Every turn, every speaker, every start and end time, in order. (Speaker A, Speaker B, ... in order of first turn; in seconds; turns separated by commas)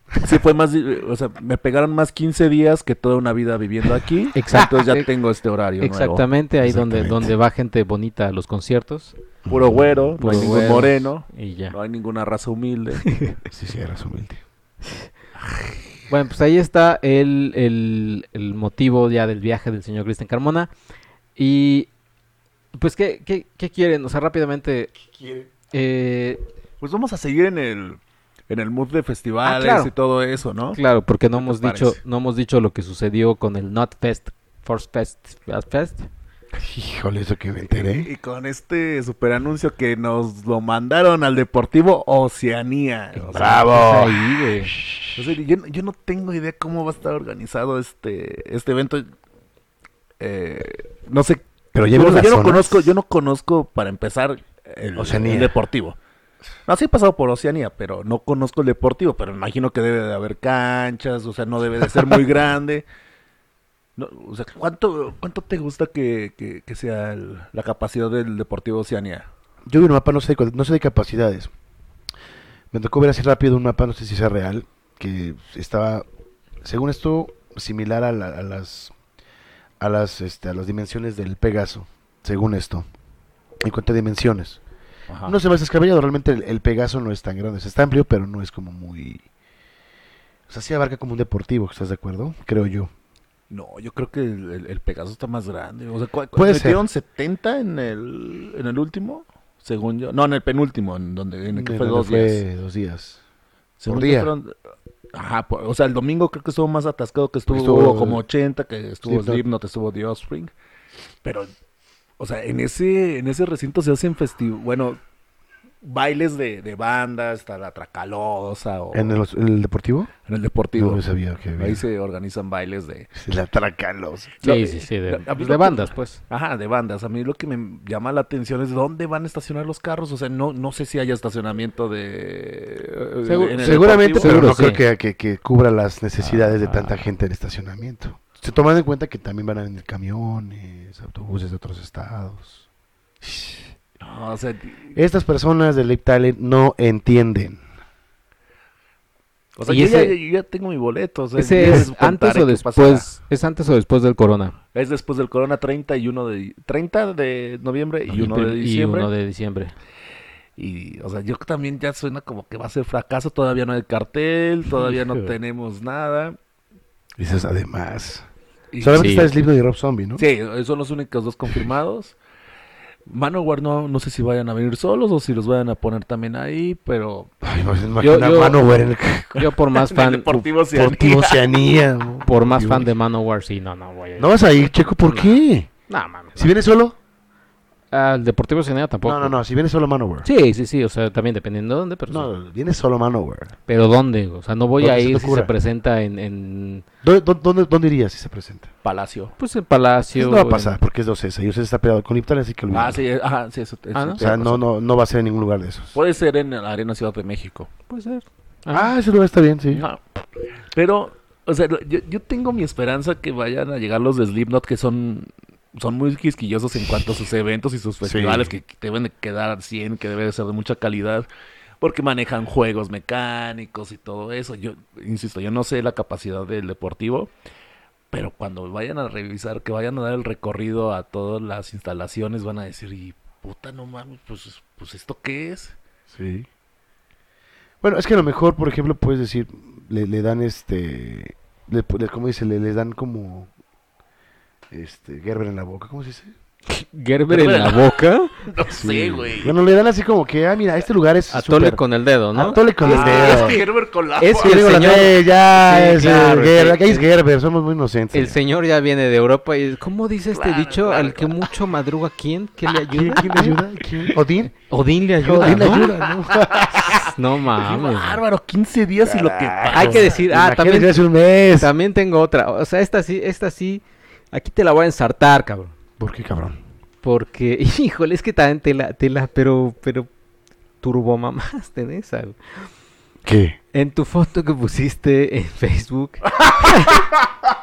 Speaker A: 0.2-6.2, Speaker B: 4.3-5.1, Speaker B: 5.8-9.1, Speaker C: 6.6-7.3, Speaker C: 9.4-10.6, Speaker A: 9.5-13.1, Speaker B: 10.2-11.7, Speaker B: 13.1-13.3, Speaker C: 13.5-14.4, Speaker A: 15.4-15.7, Speaker B: 16.1-20.7, Speaker B: 21.4-21.9, Speaker B: 22.7-24.9, Speaker C: 25.1-25.5, Speaker B: 25.7-26.4, Speaker A: 26.8-30.8, Speaker B: 29.4-29.9, Speaker B: 30.7-36.1, Speaker A: 31.4-32.0, Speaker C: 36.6-38.1, Speaker A: 37.7-43.7, Speaker C: 43.2-45.3, Speaker B: 43.3-44.7, Speaker A: 45.1-49.0, Speaker A: 50.2-56.0, Speaker C: 51.7-52.9, Speaker C: 55.0-55.5, Speaker A: 56.6-62.9, Speaker A: 64.0-69.3, Speaker C: 69.7-71.5, Speaker C: 72.7-76.0, Speaker C: 76.6-78.9, Speaker C: 79.8-82.9, Speaker C: 83.6-84.6, Speaker A: 85.1-85.4, Speaker C: 85.3-89.3, Speaker C: 90.5-92.9, Speaker A: 93.5-102.4, Speaker C: 96.3-96.8, Speaker C: 101.5-103.2, Speaker A: 103.8-104.5, Speaker C: 103.9-104.3, Speaker A: 105.1-110.5, Speaker C: 107.5-108.2, Speaker C: 109.0-109.4, Speaker A: 111.2-111.5, Speaker A: 112.2-115.0, Speaker A: 115.8-119.2, Speaker C: 118.9-120.1, Speaker A: 120.3-121.0, Speaker C: 120.8-121.8, Speaker A: 121.6-123.1, Speaker C: 123.1-124.4, Speaker A: 124.4-134.6, Speaker B: 124.4-126.2, Speaker B: 133.2-134.8, Speaker C: 133.6-142.6, Speaker B: 136.7-136.9, Speaker C: 143.2-143.7, Speaker A: 144.0-144.9, Speaker C: 144.9-147.6, Speaker A: 149.6-153.1, Speaker B: 149.7-150.2, Speaker B: 151.4-154.6, Speaker A: 154.7-159.1, Speaker B: 158.1-159.7, Speaker A: 160.6-166.4, Speaker B: 164.8-165.3, Speaker C: 167.2-168.2, Speaker A: 168.7-169.1, Speaker C: 168.8-170.2, Speaker B: 168.9-169.3, Speaker A: 170.2-172.2, Speaker A: 173.1-177.3, Speaker C: 177.4-179.5, Speaker B: 178.0-180.4, Speaker A: 179.7-181.4, Speaker C: 180.7-182.9, Speaker B: 182.2-186.5, Speaker C: 184.2-185.7, Speaker C: 186.4-186.9, Speaker B: 187.9-189.4, Speaker C: 189.0-190.3, Speaker B: 190.2-192.3, Speaker C: 192.1-193.5, Speaker B: 193.7-196.8, Speaker C: 194.8-195.5, Speaker C: 197.0-198.7, Speaker A: 198.8-199.3, Speaker B: 199.4-200.8, Speaker C: 200.2-203.0, Speaker A: 202.7-204.6, Speaker B: 203.9-204.2, Speaker C: 204.2-205.9, Speaker A: 205.9-207.7, Speaker B: 207.9-208.9, Speaker C: 208.7-209.8, Speaker A: 209.7-210.0, Speaker A: 210.7-221.3, Speaker C: 218.0-218.5, Speaker A: 221.8-227.3, Speaker A: 228.1-235.8, Speaker C: 236.1-236.5, Speaker C: 237.8-243.5, Speaker C: 244.7-246.3, Speaker B: 246.7-248.3, Speaker A: 247.3-247.9, Speaker A: 248.4-249.6, Speaker C: 248.7-251.8, Speaker B: 251.3-253.6, Speaker C: 252.3-253.6, Speaker A: 252.8-254.9, Speaker B: 254.2-257.1, Speaker C: 254.4-258.4, Speaker B: 258.1-263.6, Speaker A: 260.3-261.4, Speaker C: 262.9-264.5, Speaker B: 264.6-265.9, Speaker C: 265.2-267.1, Speaker A: 266.2-270.2, Speaker B: 267.1-268.2, Speaker C: 269.1-271.7, Speaker B: 269.7-271.0, Speaker B: 271.6-275.7, Speaker C: 276.0-276.6, Speaker B: 277.0-280.1, Speaker B: 280.8-282.7, Speaker C: 283.2-283.6, Speaker B: 283.7-287.0, Speaker A: 286.3-287.2